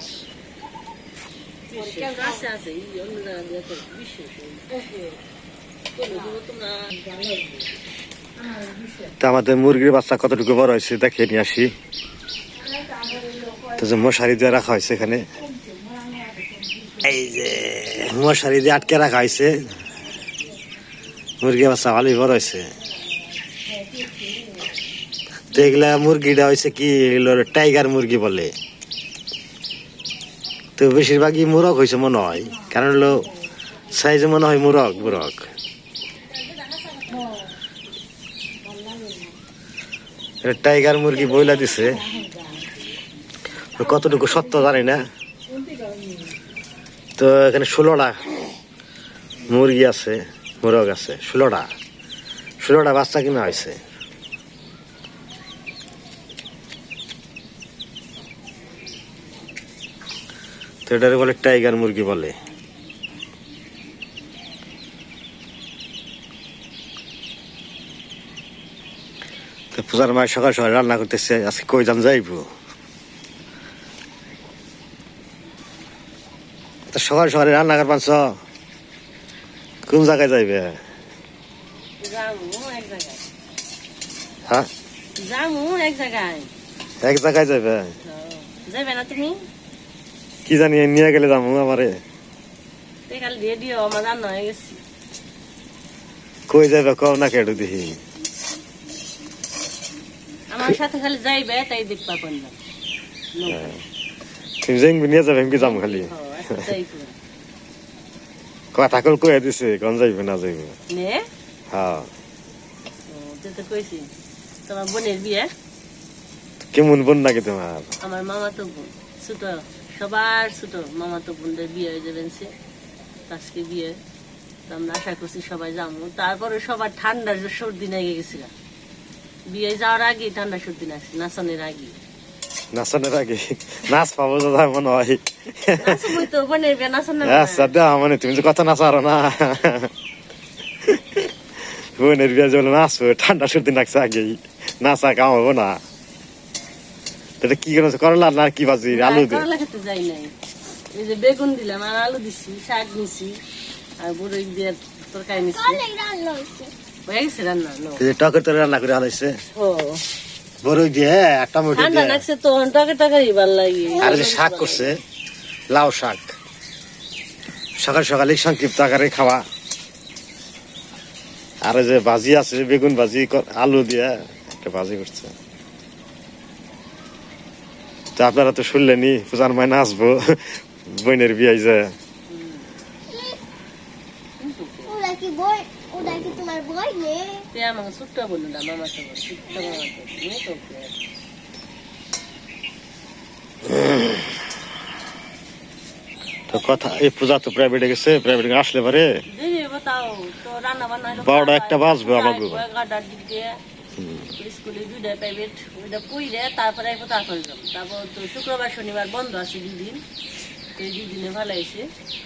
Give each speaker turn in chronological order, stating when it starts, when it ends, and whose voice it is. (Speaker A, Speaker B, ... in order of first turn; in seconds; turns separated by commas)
Speaker A: 1.7-5.2, Speaker A: 6.0-7.5, Speaker B: 9.2-11.7, Speaker B: 13.8-15.2, Speaker B: 17.0-19.6, Speaker B: 21.4-22.7, Speaker B: 25.5-28.5, Speaker B: 30.8-33.3, Speaker B: 33.9-35.5, Speaker B: 40.4-42.0, Speaker B: 43.8-45.0, Speaker B: 47.2-48.2, Speaker B: 49.5-51.7, Speaker B: 52.6-53.8, Speaker B: 60.9-62.3, Speaker B: 69.7-72.5, Speaker B: 76.9-78.4, Speaker B: 79.9-80.8, Speaker A: 82.0-83.2, Speaker A: 85.2-86.5, Speaker B: 87.0-87.9, Speaker A: 88.1-89.4, Speaker B: 90.5-92.0, Speaker A: 93.1-94.8, Speaker B: 96.5-98.0, Speaker A: 100.5-102.6, Speaker A: 103.3-103.8, Speaker B: 103.5-103.8, Speaker B: 104.6-106.1, Speaker A: 105.5-107.1, Speaker B: 108.7-110.8, Speaker A: 110.9-111.3, Speaker B: 111.7-112.1, Speaker A: 113.1-114.1, Speaker A: 114.7-115.5, Speaker B: 116.7-117.9, Speaker A: 118.0-122.5, Speaker A: 123.3-124.0, Speaker A: 124.7-128.5, Speaker A: 129.5-132.0, Speaker B: 132.7-136.1, Speaker A: 135.8-137.7, Speaker B: 137.2-139.9, Speaker B: 140.8-145.8, Speaker B: 147.4-149.4, Speaker A: 148.9-150.3, Speaker A: 150.9-153.4, Speaker A: 154.0-155.8, Speaker C: 155.4-156.7, Speaker A: 157.1-158.0, Speaker B: 158.0-159.3, Speaker A: 159.6-160.0, Speaker B: 160.6-162.2, Speaker A: 161.7-164.9, Speaker C: 163.9-164.3, Speaker B: 164.0-165.0, Speaker B: 165.7-166.3, Speaker B: 167.8-169.4, Speaker B: 171.6-175.3, Speaker B: 178.2-181.9, Speaker A: 182.3-182.7, Speaker C: 183.1-183.4, Speaker A: 184.4-184.9, Speaker C: 184.9-187.5, Speaker A: 187.5-191.0, Speaker B: 193.7-194.2, Speaker B: 196.5-199.2, Speaker A: 199.3-203.6, Speaker B: 201.2-202.6, Speaker B: 204.0-204.3, Speaker A: 204.4-210.0, Speaker A: 210.8-211.9